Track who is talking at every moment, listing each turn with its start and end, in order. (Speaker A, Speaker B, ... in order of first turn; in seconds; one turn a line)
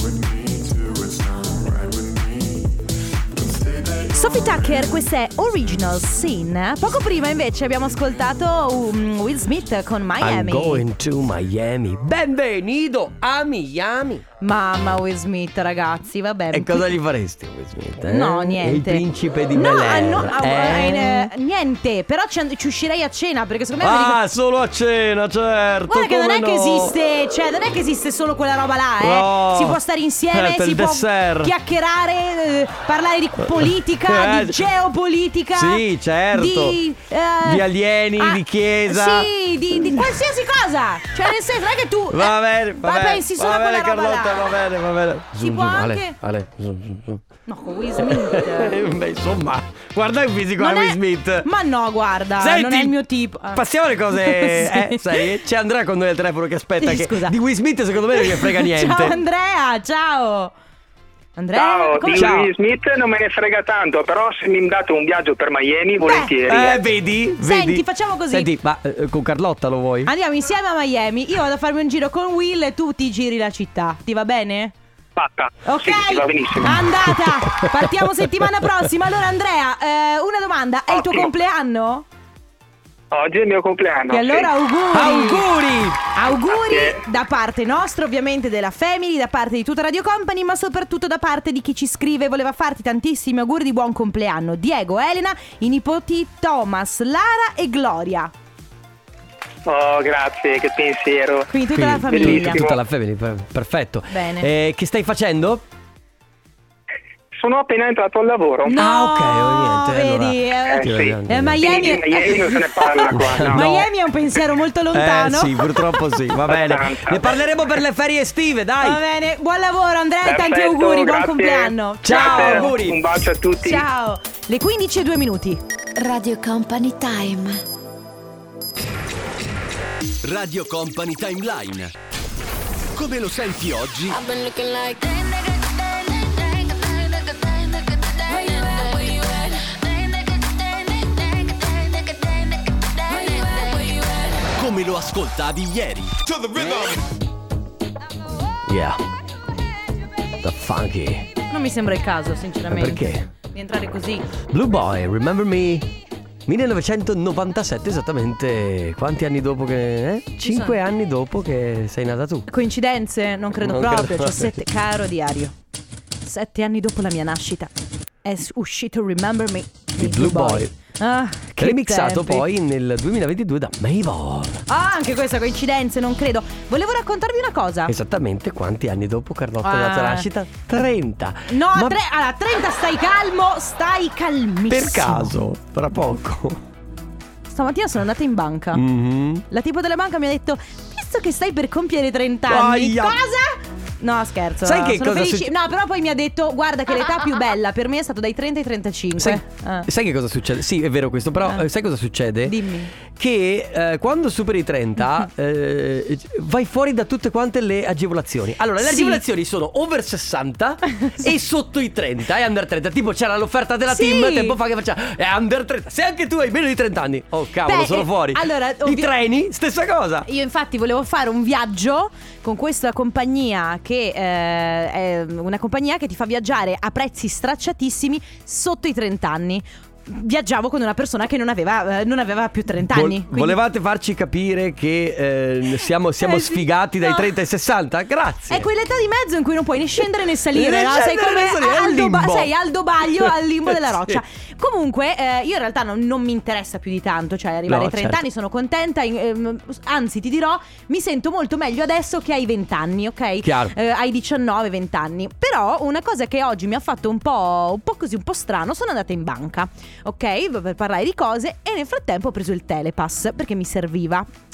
Speaker A: 4.0-10.8
Speaker B: 10.2-14.2
Speaker A: 14.4-16.9
Speaker B: 16.5-21.3
Speaker A: 18.0-24.2
Speaker B: 23.8-26.9
Speaker A: 25.9-44.5
Speaker B: 29.0-29.8
Speaker B: 30.3-31.5
Speaker B: 33.5-34.6
Speaker B: 35.5-36.8
Speaker B: 37.4-39.3
Speaker B: 42.1-47.2
Speaker A: 45.4-46.1
Speaker A: 47.5-48.8
Speaker B: 48.0-51.5
Speaker A: 50.6-55.3
Speaker B: 52.4-53.0
Speaker B: 53.5-59.2
Speaker A: 56.8-57.3
Speaker A: 58.1-60.5
Speaker A: 61.4-62.3
Speaker C: 61.5-66.8
Speaker B: 62.1-62.5
Speaker A: 66.0-66.7
Speaker B: 66.5-70.1
Speaker A: 67.4-68.5
Speaker A: 70.0-74.7
Speaker C: 75.2-76.8
Speaker A: 75.6-82.0
Speaker C: 81.0-81.2
Speaker C: 83.1-84.5
Speaker A: 84.1-85.4
Speaker B: 84.9-86.0
Speaker A: 86.1-98.3
Speaker C: 86.5-87.0
Speaker C: 99.7-101.5
Speaker A: 101.5-102.7
Speaker B: 101.7-105.6
Speaker C: 102.1-102.8
Speaker A: 104.1-104.5
Speaker C: 107.4-108.8
Speaker A: 108.7-116.0
Speaker B: 108.7-111.6
Speaker C: 110.8-113.8
Speaker B: 113.1-113.8
Speaker B: 114.9-119.0
Speaker C: 116.5-117.3
Speaker A: 118.8-122.7
Speaker C: 120.2-123.8
Speaker B: 122.0-123.0
Speaker A: 123.6-125.6
Speaker D: 125.9-127.6
Speaker E: 130.3-131.9
Speaker B: 130.4-131.2
Speaker E: 133.0-134.1
Speaker D: 134.1-144.4
Speaker E: 144.6-146.1
Speaker B: 148.7-149.0
Speaker B: 150.4-151.3
Speaker A: 151.5-154.3
Speaker B: 152.7-153.3
Speaker B: 154.4-155.9
Speaker B: 156.5-162.4
Speaker A: 160.4-160.8
Speaker A: 162.5-165.5
Speaker B: 163.6-164.5
Speaker A: 166.2-167.7
Speaker A: 168.2-172.4
Speaker B: 170.0-170.7
Speaker B: 171.6-174.6
Speaker A: 174.7-177.9
Speaker B: 177.9-182.0
Speaker A: 179.6-180.3
Speaker A: 181.5-185.3
Speaker B: 184.7-186.6
Speaker A: 187.5-188.8
Speaker B: 188.7-189.4
Speaker A: 189.5-199.9
Speaker B: 192.5-193.2
Speaker B: 194.6-195.5
Speaker B: 199.2-202.6
Speaker A: 201.4-201.7
Speaker A: 202.4-202.9
Speaker B: 203.2-220.3
Speaker A: 208.8-209.2
Speaker A: 213.9-214.6
Speaker A: 217.7-219.1
Speaker A: 220.2-233.6
Speaker B: 232.9-238.7
Speaker A: 236.2-237.3
Speaker A: 238.5-264.3
Speaker B: 240.5-244.2
Speaker B: 247.7-248.2
Speaker B: 253.4-253.7